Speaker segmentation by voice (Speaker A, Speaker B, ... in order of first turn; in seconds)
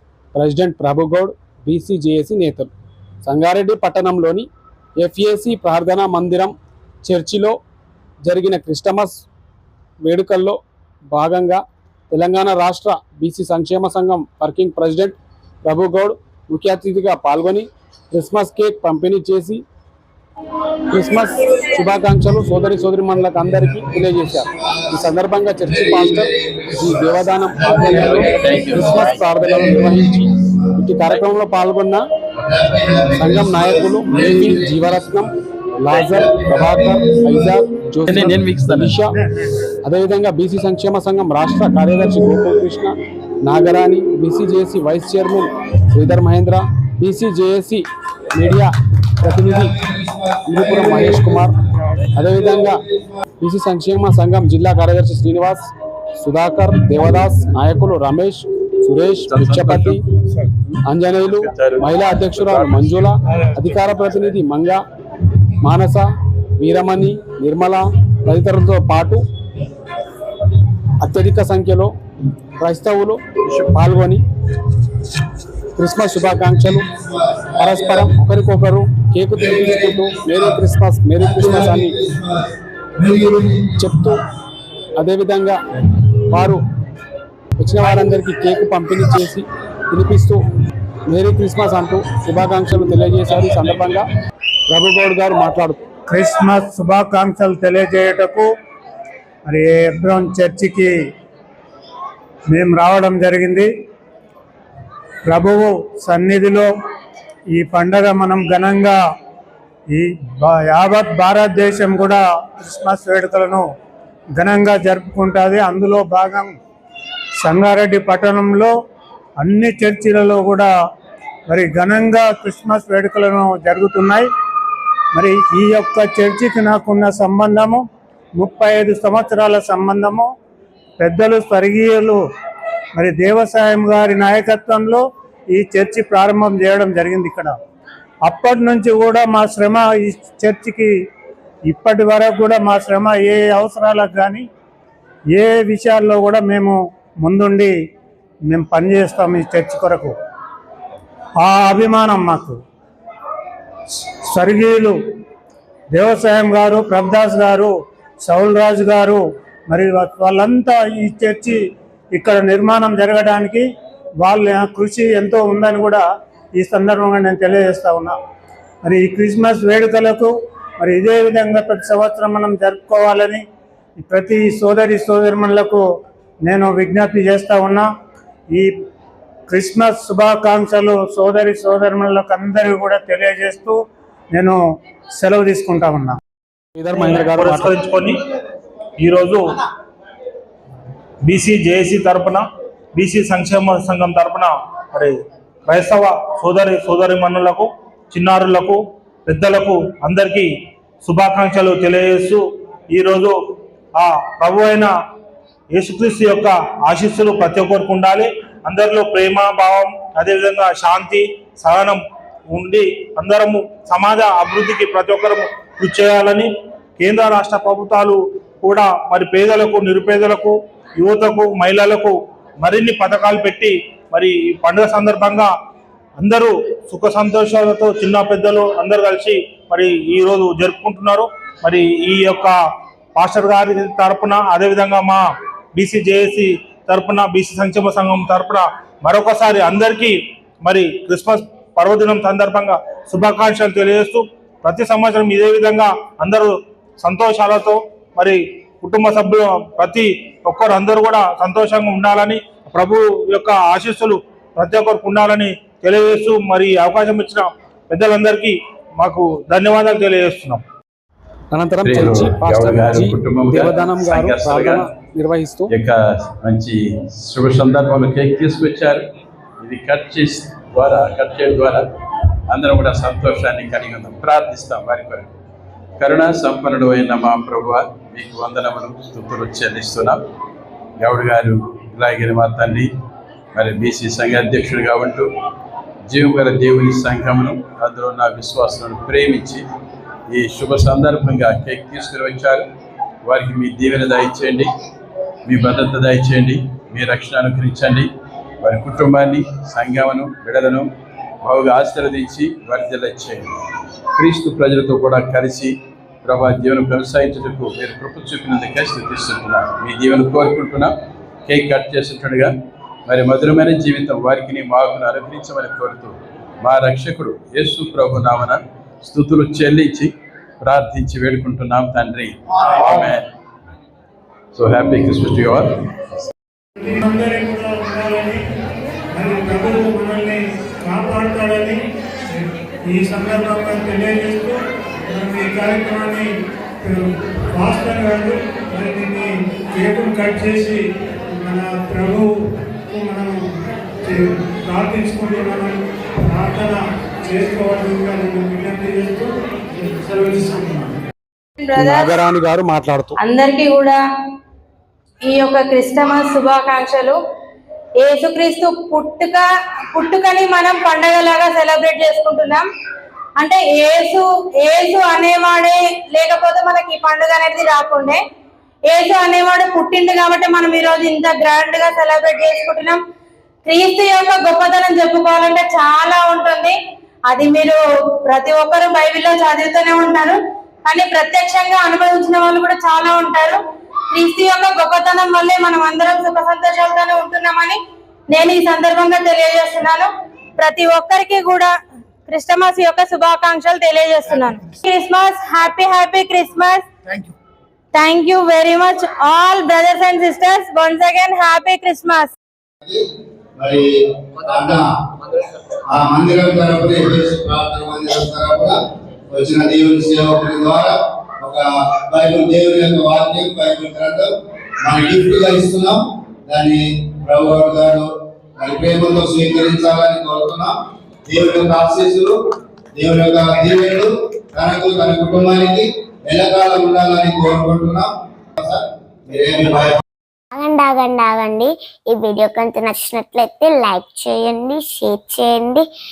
Speaker A: 0.3-2.7, 3.2-4.5, 5.0-6.5, 7.0-7.6, 8.2-9.2, 10.0-10.6, 11.1-19.6, 20.9-32.1, 33.1-39.2, 39.8-49.8, 50.4-51.5, 52.1-52.8, 53.4-60.0, 60.8-64.8, 65.6-69.2, 71.0-71.9, 72.6-74.2, 75.7-76.8, 77.6-82.0, 83.8-84.2, 85.0-86.6, 87.6-90.4, 91.1-94.1, 94.7-95.8, 186.8-187.7, 261.5-265.7, 351.8-353.2
Speaker B: 23.2-25.0, 25.7-30.7, 32.4-35.3, 35.9-37.6, 49.3-51.5, 52.2-53.2, 76.5-78.2, 79.3-80.6, 81.2-84.1, 403.6-404.8, 405.9-408.8, 409.3-414.3, 414.8-420.7, 421.3-422.4, 422.9-430.0
Speaker C: 27.9-28.9, 38.0-39.0, 59.3-64.0, 261.8-264.9, 265.7-269.0, 269.6-271.8, 272.5-275.3, 276.0-280.2, 281.0-282.9, 283.5-285.3, 286.1-289.6, 290.3-292.6, 293.2-294.7, 295.4-298.1, 298.6-300.9, 301.4-303.5, 304.2-310.9, 311.5-312.5, 313.1-323.2, 324.5-325.7
Speaker D: 39.1-39.5, 96.1-98.5, 99.5-100.9, 102.5-103.7, 105.2-106.7, 107.5-109.0, 109.9-113.6, 114.4-116.5, 117.4-118.7, 119.4-120.7, 121.5-124.3, 125.1-127.8, 128.4-130.3, 131.0-132.2, 132.9-135.0, 135.5-137.5, 138.3-140.9, 141.7-144.4, 145.3-147.7, 148.5-150.1, 151.4-152.6, 154.3-154.9, 155.9-157.7, 158.2-161.6, 162.1-163.7, 164.2-166.0, 166.6-168.1, 168.8-173.4, 174.0-175.8, 176.5-177.8, 179.5-183.8, 184.3-184.6, 185.2-186.2, 326.8-328.4, 329.1-331.8, 332.3-336.3, 336.8-342.3, 342.9-343.4, 344.0-350.9
Speaker E: 186.9-188.2, 189.0-189.5, 191.2-200.5, 201.0-203.4, 203.9-204.9, 205.7-225.5, 226.2-232.6, 233.1-260.6
Speaker F: 351.6-352.2, 353.2-354.0, 355.3-357.2, 358.0-362.7, 363.4-368.2, 368.9-373.0, 373.6-376.8, 377.3-383.6, 384.1-391.7, 392.3-396.9, 397.9-402.3
Speaker G: 430.5-435.9